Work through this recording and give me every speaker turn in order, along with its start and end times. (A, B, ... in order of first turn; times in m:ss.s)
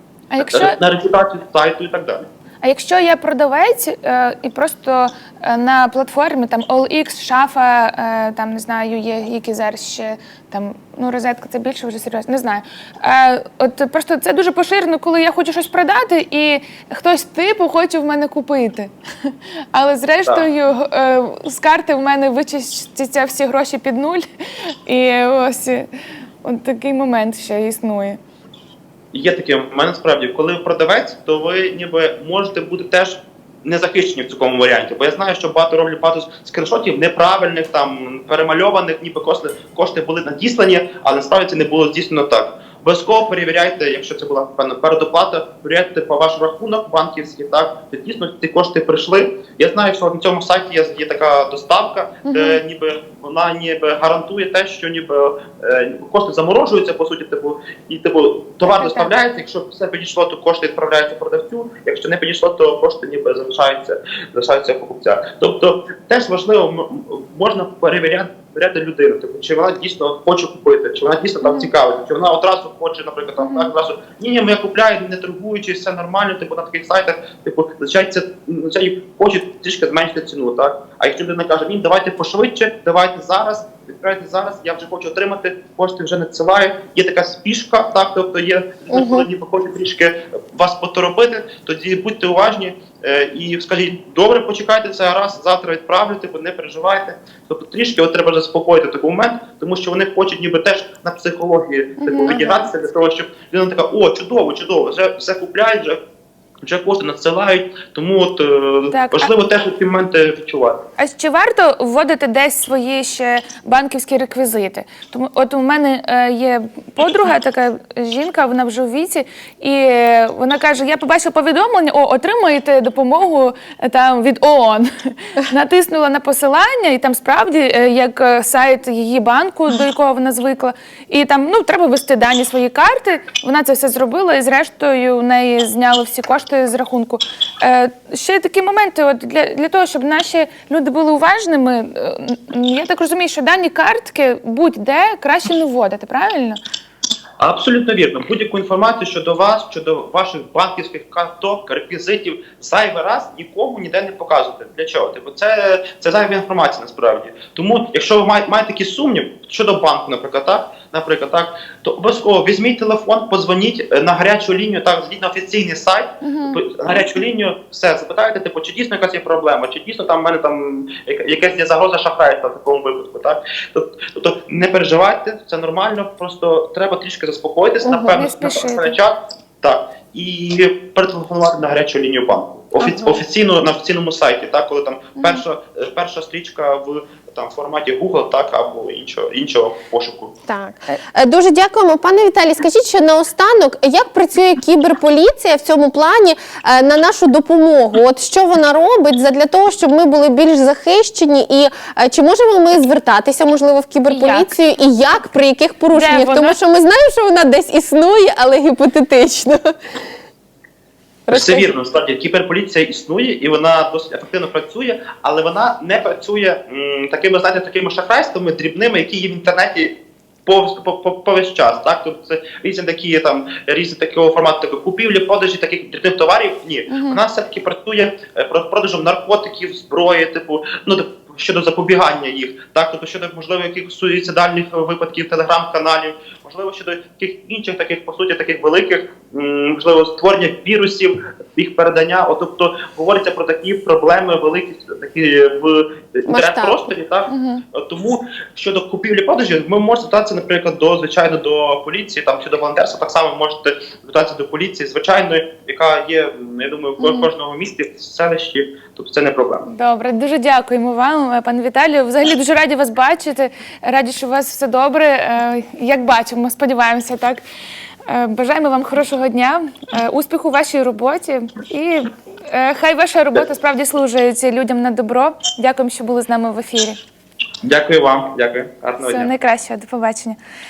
0:00.3-0:00.8 A
0:00.4-0:02.3 B
0:02.6-0:24.2 A
0:24.9-0:25.9 A
0:26.4-0:28.2 A
0:29.1-1:46.0 B
0:52.3-0:52.6 A
0:58.6-0:59.1 A
1:11.4-1:11.7 A
1:13.4-1:13.7 A
1:28.9-1:29.3 C
1:42.0-1:42.7 A
1:46.6-1:50.8 B
1:48.9-1:49.3 A
1:51.0-2:26.6 A
2:27.4-3:10.3 B
2:46.2-2:46.6 A
2:57.8-2:58.2 C
2:58.1-2:59.0 A
3:10.5-3:30.0 C
3:24.1-3:24.6 A
3:25.9-3:26.6 A
3:31.3-3:31.7 C
3:31.3-4:19.7 B
3:46.9-3:47.2 A
4:06.3-4:06.9 C
4:07.3-4:07.6 A
4:17.0-4:17.3 A
4:19.7-4:27.4 A
4:28.1-4:37.0 A
4:37.6-4:39.3 B
4:39.0-4:40.4 A